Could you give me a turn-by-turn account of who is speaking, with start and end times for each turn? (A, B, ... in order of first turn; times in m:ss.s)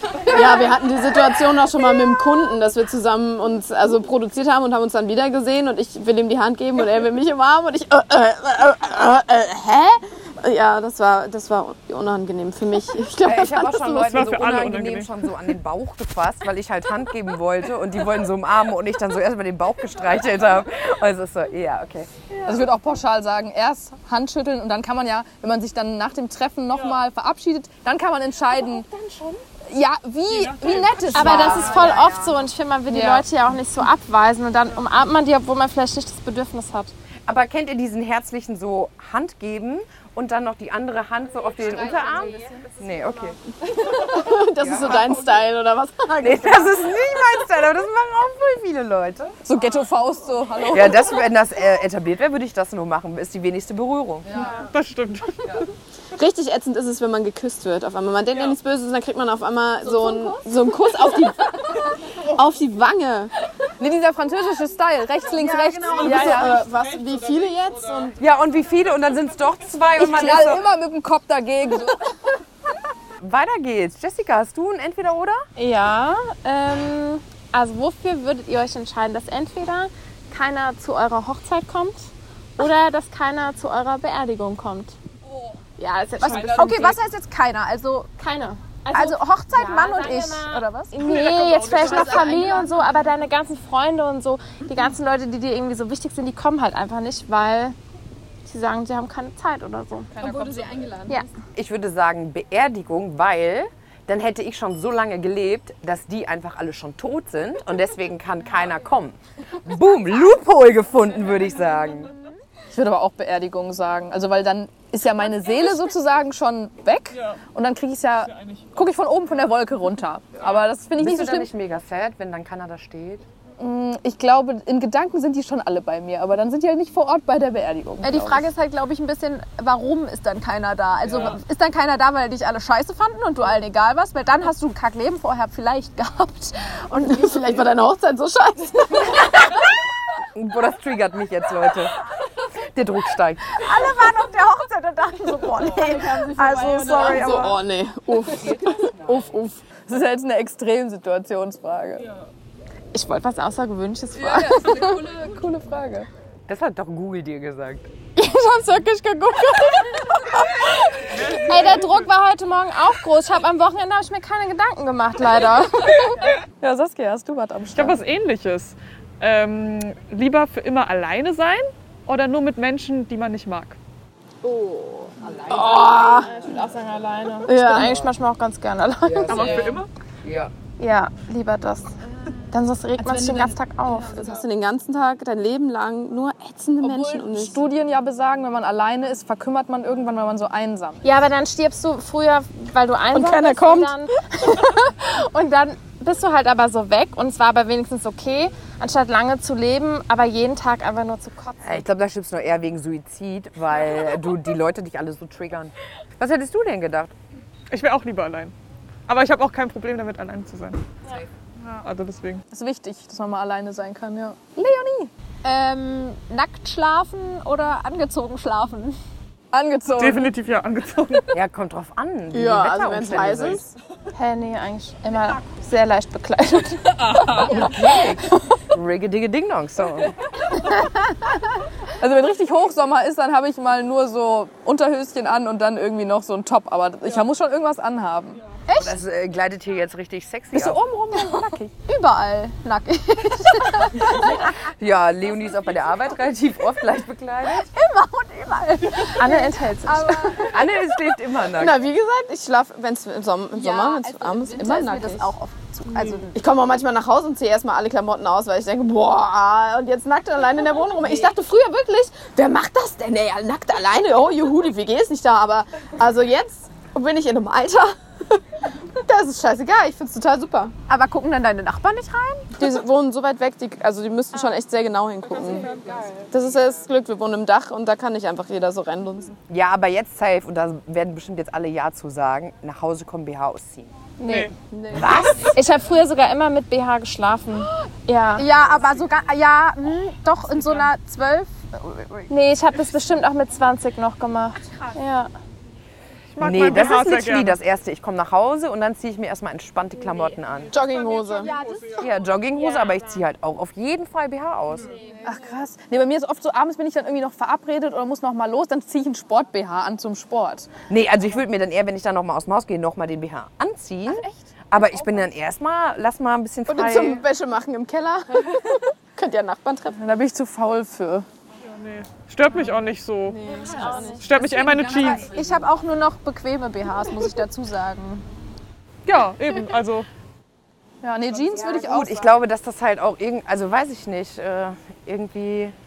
0:00.2-0:00.6 A
0:00.2-0:14.1 B
0:13.2-0:22.1 C
0:14.0-0:15.2 D
0:22.4-0:28.8 E
0:29.0-0:29.3 F
0:29.6-0:32.0 E
0:30.3-0:32.0 D
0:31.1-0:36.9 F
0:31.3-0:31.6 C
0:31.5-0:31.9 A
0:32.9-0:33.3 E
0:37.3-0:43.4 C
0:43.6-0:46.8 B
0:44.6-0:45.2 C
0:46.2-0:49.4 C
0:49.4-0:51.1 E
0:50.7-0:54.5 C
0:54.3-0:55.6 D
0:56.1-1:03.3 B
0:59.9-1:00.4 A
1:03.8-1:06.6 E
1:05.9-1:08.2 B
1:08.2-1:10.6 C
1:10.0-1:12.0 E
1:13.2-1:15.4 C
1:15.6-1:25.0 F
1:25.8-1:27.0 F
1:26.4-1:28.1 A
1:28.2-1:37.8 F
1:28.9-1:31.1 A
1:31.0-1:32.0 D
1:31.6-1:32.6 B
1:32.1-1:32.6 A
1:38.4-1:40.2 F
1:40.2-1:41.2 B
1:40.2-1:40.8 E
1:41.5-1:52.1 C
1:52.7-2:01.5 E
1:58.2-1:58.7 D
2:01.0-2:03.2 C
2:03.6-2:08.5 E
2:08.0-2:17.5 A
2:16.9-2:19.3 B
2:20.3-2:22.0 C
2:22.7-2:23.7 C
2:23.6-2:27.4 A
2:25.7-2:29.6 B
2:26.8-2:27.6 C
2:29.7-2:32.0 E
2:32.9-2:35.1 F
2:34.1-2:36.1 E
2:36.5-2:37.9 C
2:39.7-2:46.2 F
2:41.1-2:41.9 D
2:46.6-2:48.0 E
2:47.7-2:53.8 D
2:54.4-2:56.5 B
2:56.1-2:59.6 F
2:57.4-2:58.0 B
2:57.8-2:58.1 C
2:59.0-3:00.5 C
2:59.3-2:59.9 D
3:00.8-3:01.9 F
3:02.5-3:04.3 F
3:03.0-3:03.6 E
3:04.0-3:07.6 B
3:06.8-3:11.0 E
3:11.0-3:21.8 F
3:13.1-3:13.9 B
3:21.6-3:27.1 C
3:27.7-3:28.5 D
3:29.1-3:30.8 D
3:31.7-3:32.4 D
3:32.5-3:35.1 E
3:35.4-3:39.0 A
3:39.5-3:40.3 E
3:40.0-3:41.3 D
3:41.3-3:43.7 C
3:42.3-3:43.7 B
3:44.2-3:47.5 F
3:47.1-3:47.5 E
3:47.3-3:50.1 C
3:52.0-3:58.4 E
3:58.7-4:00.8 C
4:00.6-4:01.6 E
4:01.2-4:04.0 A
4:04.0-4:07.7 C
4:07.6-4:09.3 A
4:09.2-4:10.5 F
4:09.2-4:10.5 E
4:10.5-4:11.8 C
4:11.5-4:15.3 B
4:13.6-4:16.4 A
4:16.3-4:30.7 B
4:30.9-4:32.5 A
4:32.5-4:35.7 B
4:36.3-4:39.4 B
4:39.5-4:43.9 C
4:44.2-4:44.5 F
4:44.2-4:44.5 D
4:44.7-4:45.4 B
4:44.9-4:45.6 C
4:45.5-4:48.5 F
4:48.3-4:52.3 A
4:52.3-4:55.3 F
4:56.3-4:57.6 D
4:56.4-5:00.8 C
5:00.7-5:01.5 B
5:02.0-5:04.9 C
5:05.2-5:10.7 E
5:10.9-5:17.2 C
5:16.7-5:20.0 B
5:19.9-5:21.2 E
5:21.7-5:23.4 D
5:23.3-5:24.3 B
5:23.9-5:24.2 A
5:24.2-5:25.3 D
5:24.9-5:25.2 E
5:25.1-5:28.2 A
5:29.0-5:30.1 D
5:31.0-5:32.3 E
5:31.6-5:35.7 C